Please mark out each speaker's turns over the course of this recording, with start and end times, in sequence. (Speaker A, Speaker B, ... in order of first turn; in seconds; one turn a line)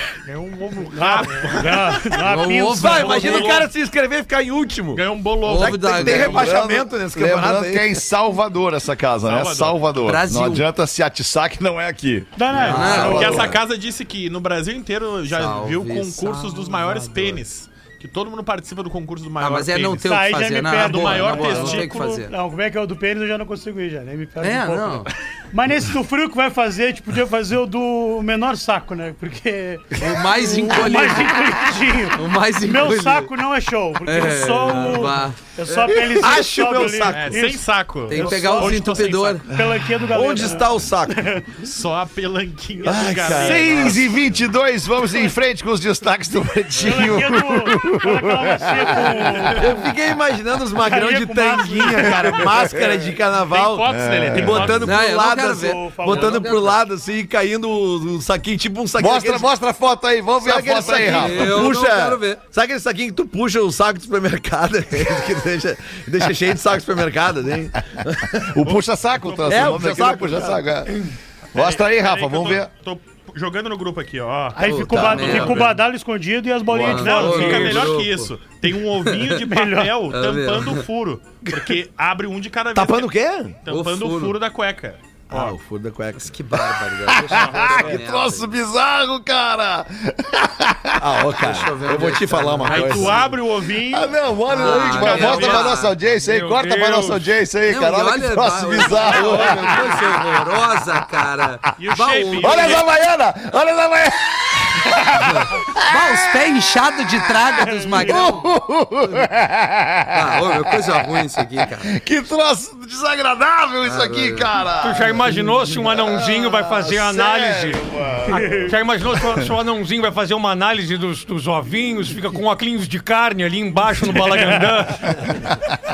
Speaker A: 0.2-2.0
Speaker B: 0.9-3.6
Speaker C: 2.2-3.6
Speaker D: 2.7-8.0
Speaker A: 3.1-3.7
Speaker A: 4.9-6.3
Speaker C: 5.4-6.5
Speaker E: 6.1-13.6
Speaker A: 9.2-9.8
Speaker C: 10.0-10.7
Speaker B: 12.4-13.4
Speaker A: 12.6-20.2
Speaker C: 12.7-13.4
Speaker C: 15.3-17.4
Speaker C: 19.4-22.3
Speaker B: 20.0-38.8
Speaker A: 20.7-22.0
Speaker C: 24.4-25.1
Speaker C: 30.0-31.4
Speaker C: 32.1-33.3
Speaker C: 34.0-35.4
Speaker D: 35.7-37.5
Speaker A: 37.0-39.5
Speaker C: 38.1-39.5
Speaker B: 39.5-41.6
Speaker D: 40.1-41.3
Speaker A: 41.6-44.0
Speaker D: 42.8-44.1
Speaker E: 43.3-49.7
Speaker B: 46.8-49.8
Speaker D: 49.5-59.5
Speaker B: 50.8-52.4
Speaker E: 52.2-53.0
Speaker A: 53.5-54.9
Speaker E: 53.9-54.8
Speaker C: 54.8-56.8
Speaker B: 55.5-56.5
Speaker E: 59.0-61.7
Speaker D: 60.4-68.5
Speaker C: 61.1-62.4
Speaker E: 68.3-71.0
Speaker A: 68.6-69.9
Speaker D: 69.5-70.9
Speaker E: 71.5-72.7
Speaker A: 71.5-75.5
Speaker B: 74.6-77.9
Speaker C: 74.7-75.7
Speaker E: 74.9-75.5
Speaker E: 76.7-77.1
Speaker C: 76.8-78.3
Speaker A: 77.0-85.6
Speaker F: 77.2-77.9
Speaker C: 79.0-79.4
Speaker B: 79.4-80.0
Speaker C: 80.1-80.8
Speaker D: 82.8-83.6
Speaker C: 83.7-84.4
Speaker D: 85.3-86.3
Speaker C: 86.2-88.5
Speaker E: 87.1-91.3
Speaker D: 87.6-87.9
Speaker D: 91.0-93.3
Speaker C: 91.4-93.3
Speaker A: 92.6-95.8
Speaker E: 93.9-101.0
Speaker C: 94.5-95.9
Speaker F: 96.2-97.3
Speaker C: 97.7-102.8
Speaker D: 99.0-100.0
Speaker A: 101.8-102.9
Speaker E: 102.4-115.3
Speaker C: 105.2-108.5
Speaker B: 107.9-108.3
Speaker C: 110.1-111.9
Speaker C: 113.8-114.5
Speaker F: 114.8-125.3
Speaker E: 115.8-119.5
Speaker B: 118.3-118.7
Speaker E: 125.3-125.8